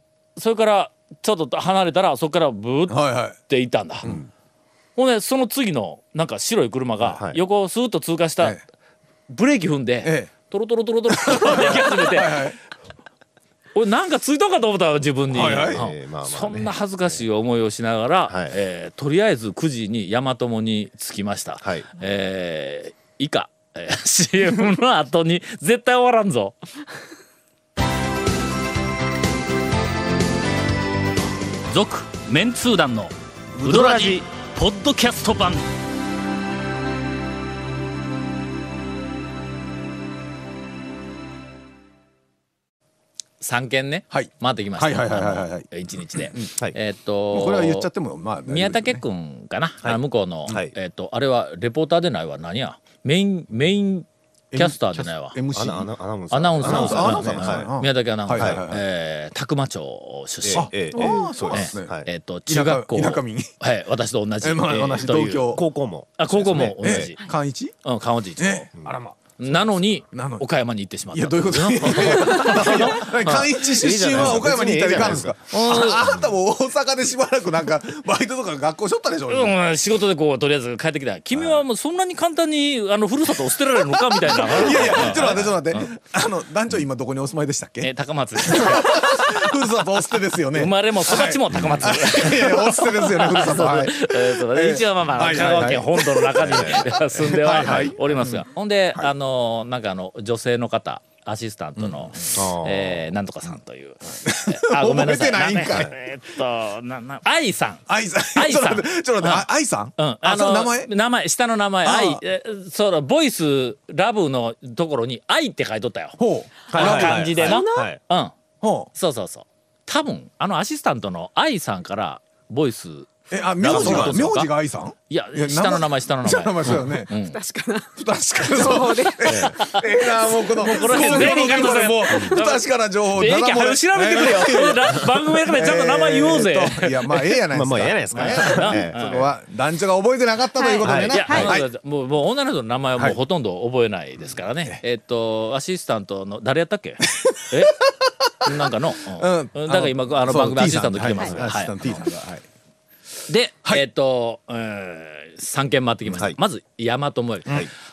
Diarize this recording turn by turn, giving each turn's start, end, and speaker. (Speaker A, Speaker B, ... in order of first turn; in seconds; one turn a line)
Speaker A: 0.3-4.1
Speaker B: 2.9-3.4
Speaker A: 5.0-8.6
Speaker C: 7.0-7.4
Speaker A: 9.3-12.5
Speaker B: 10.0-10.3
Speaker B: 11.1-12.6
Speaker A: 13.7-26.6
Speaker B: 15.3-15.8
Speaker C: 15.3-17.2
Speaker C: 18.3-18.6
Speaker C: 21.6-21.9
Speaker A: 31.7-35.6
Speaker C: 33.6-34.2
Speaker A: 43.4-47.9
Speaker B: 44.1-46.5
Speaker B: 47.3-49.0
Speaker A: 48.5-55.4
Speaker C: 49.8-50.7
Speaker B: 54.5-55.9
Speaker C: 55.5-57.7
Speaker A: 56.3-60.9
Speaker B: 56.6-58.8
Speaker C: 58.3-58.6
Speaker C: 60.4-62.1
Speaker B: 60.5-63.5
Speaker D: 60.9-61.3
Speaker A: 61.5-65.6
Speaker B: 64.4-65.6
Speaker C: 65.4-67.1
Speaker A: 66.2-67.2
Speaker B: 66.8-67.8
Speaker A: 67.8-68.7
Speaker B: 68.4-70.4
Speaker A: 69.4-73.5
Speaker B: 71.1-79.6
Speaker C: 72.5-75.3
Speaker A: 75.5-76.1
Speaker A: 79.3-85.8
Speaker B: 84.0-99.1
Speaker A: 87.8-89.3
Speaker A: 90.5-116.2
Speaker C: 91.5-92.0
Speaker C: 96.4-96.8
Speaker B: 101.8-102.4
Speaker C: 102.3-103.0
Speaker B: 104.1-106.0
Speaker B: 107.9-110.9
Speaker B: 111.8-112.2
Speaker B: 116.2-117.3
Speaker C: 116.7-118.0
Speaker A: 116.7-118.3
Speaker D: 117.4-117.9
Speaker B: 118.6-118.9
Speaker A: 118.9-124.5
Speaker B: 123.3-127.1
Speaker C: 123.7-124.2
Speaker A: 125.1-127.4
Speaker D: 127.2-129.7
Speaker B: 128.0-141.7
Speaker C: 129.3-129.6
Speaker A: 129.6-129.8
Speaker D: 130.4-131.8
Speaker A: 130.6-137.3
Speaker C: 137.5-139.3
Speaker A: 138.1-139.2
Speaker D: 140.6-141.5
Speaker C: 140.8-141.5
Speaker A: 141.1-147.8
Speaker B: 147.1-147.9
Speaker A: 148.4-151.7
Speaker B: 149.2-152.4
Speaker C: 151.3-151.6
Speaker A: 153.3-157.6